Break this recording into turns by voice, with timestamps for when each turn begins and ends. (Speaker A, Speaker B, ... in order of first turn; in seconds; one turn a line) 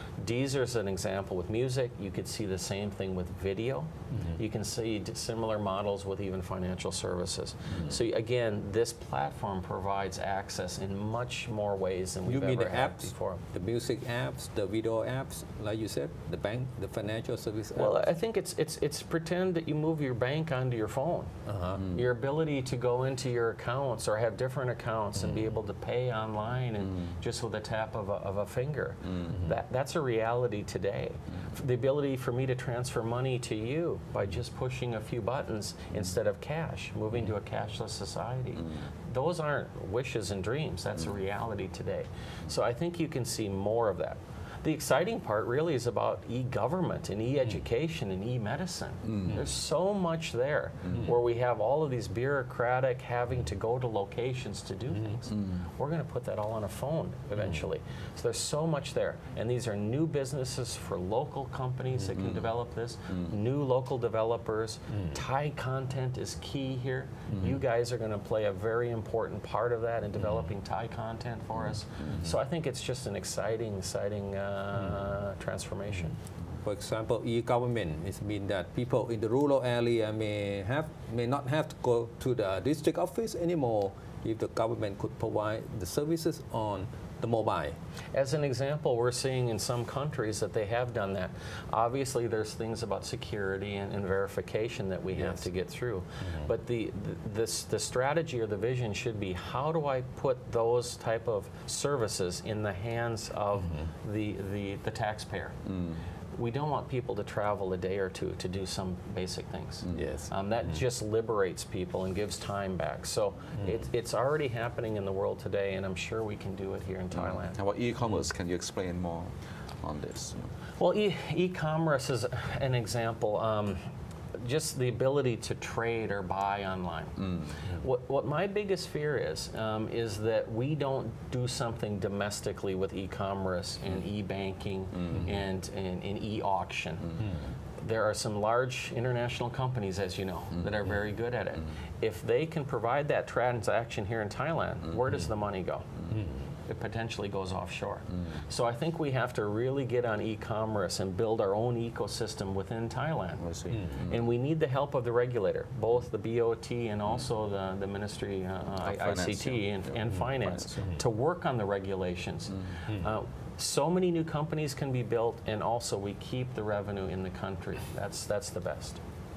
Speaker A: 0.2-13.4
Speaker B: 12.3-18.0
Speaker A: 17.8-76.2
Speaker B: 21.5-21.8
Speaker C: 62.2-62.5
Speaker B: 76.6-87.8
Speaker A: 88.1-105.6
Speaker B: 95.2-95.4
Speaker C: 105.7-106.0
Speaker A: 106.3-117.6
Speaker B: 109.9-110.3
Speaker C: 117.1-119.3
Speaker C: 119.8-120.5
Speaker A: 120.8-123.8
Speaker A: 124.4-127.2
Speaker A: 127.7-137.1
Speaker A: 137.8-145.9
Speaker A: 146.7-169.0
Speaker C: 153.4-154.2
Speaker C: 158.8-160.8